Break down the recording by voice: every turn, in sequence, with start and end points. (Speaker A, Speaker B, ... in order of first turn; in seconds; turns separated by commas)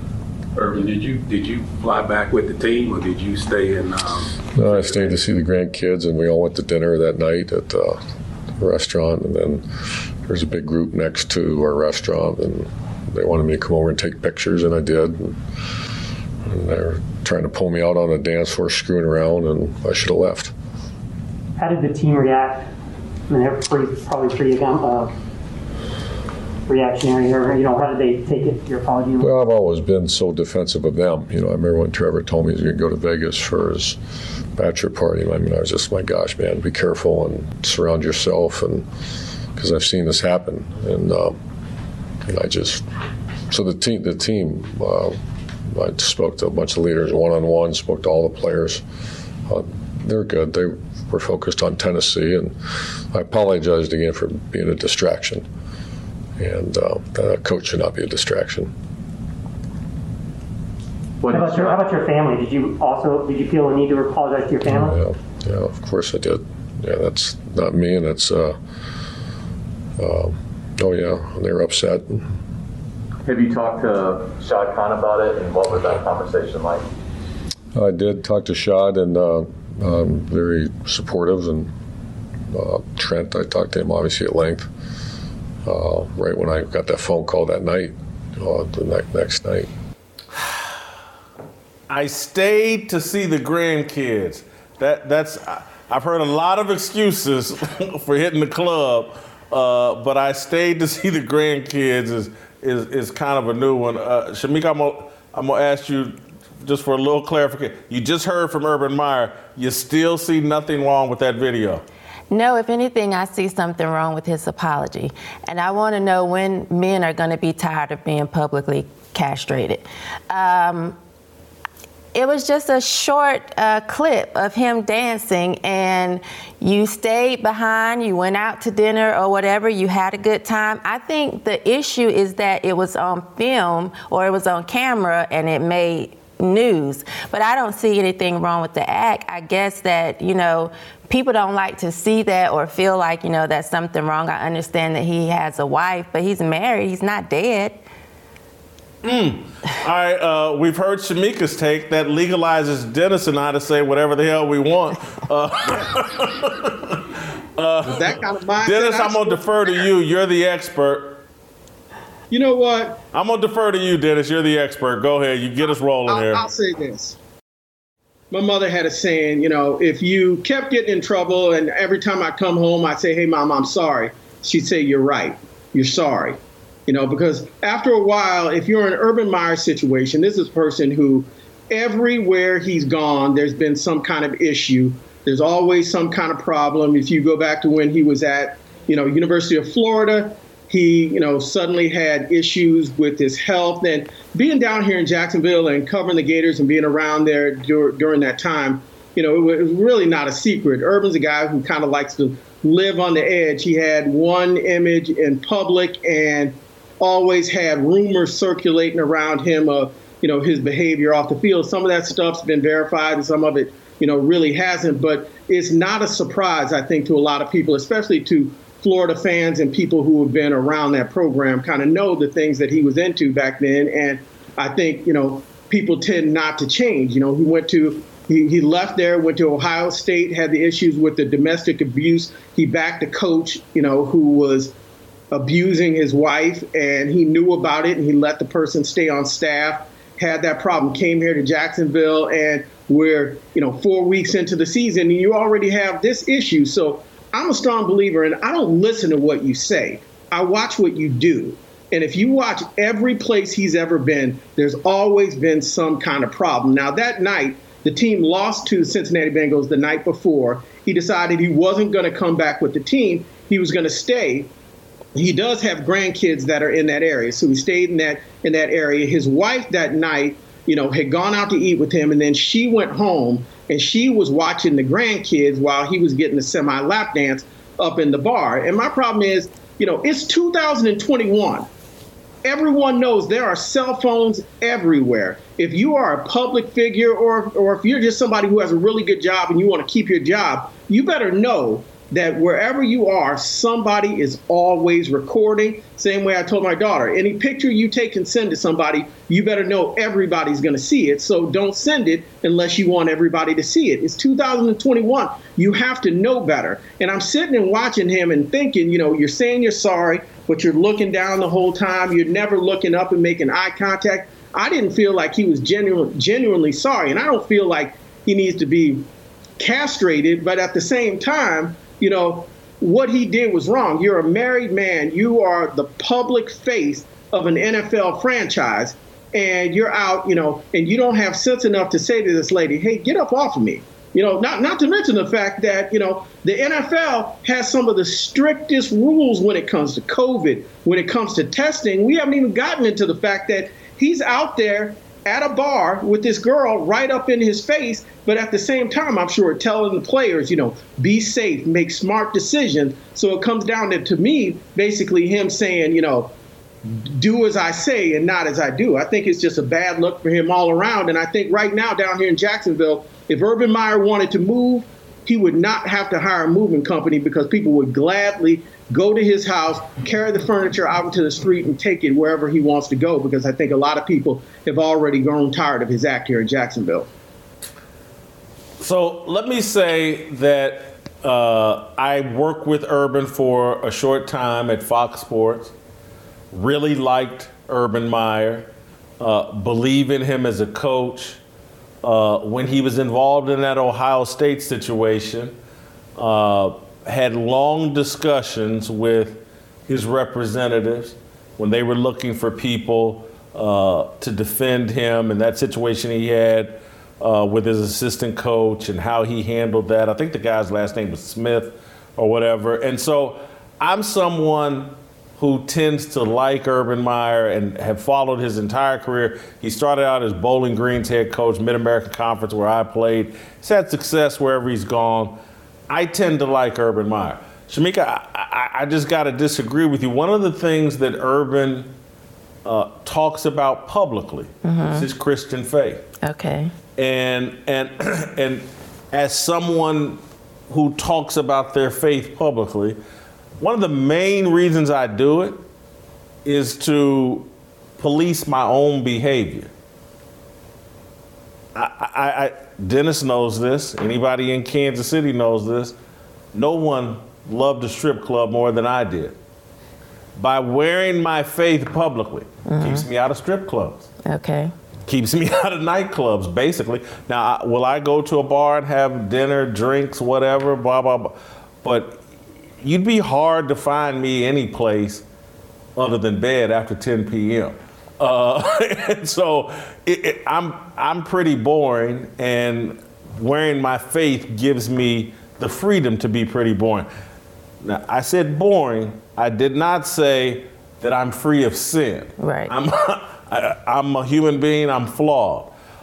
Speaker A: 0.6-5.2, Speaker B: 4.5-8.0, Speaker B: 8.6-15.4, Speaker B: 16.4-20.5, Speaker C: 21.6-22.7, Speaker C: 23.3-25.1, Speaker C: 26.7-29.3, Speaker B: 29.2-34.0, Speaker B: 34.6-38.9, Speaker B: 39.6-41.4, Speaker B: 42.3-42.8, Speaker B: 43.5-48.8, Speaker B: 49.5-55.5, Speaker B: 56.4-58.7, Speaker D: 61.2-61.8, Speaker C: 61.3-65.0, Speaker B: 64.7-68.6, Speaker B: 70.0-72.3, Speaker D: 73.2-76.8, Speaker B: 77.7-81.7, Speaker B: 82.5-84.7, Speaker B: 85.7-89.7, Speaker E: 90.3-90.8, Speaker E: 91.9-111.8, Speaker F: 112.3-121.0, Speaker F: 122.1-147.8, Speaker E: 149.0-161.2, Speaker G: 157.9-159.5, Speaker G: 162.3-163.0, Speaker E: 163.1-166.5, Speaker G: 166.1-167.2, Speaker G: 168.3-234.7, Speaker G: 235.3-264.5, Speaker G: 265.1-281.7, Speaker G: 282.4-319.1, Speaker G: 319.6-356.3, Speaker G: 356.8-377.1, Speaker E: 378.8-385.7, Speaker E: 386.5-388.7, Speaker E: 389.2-391.4, Speaker E: 392.0-395.6, Speaker E: 396.2-431.9, Speaker E: 432.6-436.1, Speaker F: 434.6-435.1, Speaker F: 436.2-436.7, Speaker E: 437.0-443.0, Speaker E: 443.6-445.6, Speaker E: 446.4-449.7, Speaker E: 451.8-456.0, Speaker E: 456.5-459.4, Speaker E: 460.4-464.1, Speaker F: 462.7-463.1, Speaker F: 464.3-464.7, Speaker E: 465.1-472.2, Speaker E: 472.8-475.2, Speaker E: 476.0-487.1, Speaker E: 487.8-495.7, Speaker F: 492.4-492.7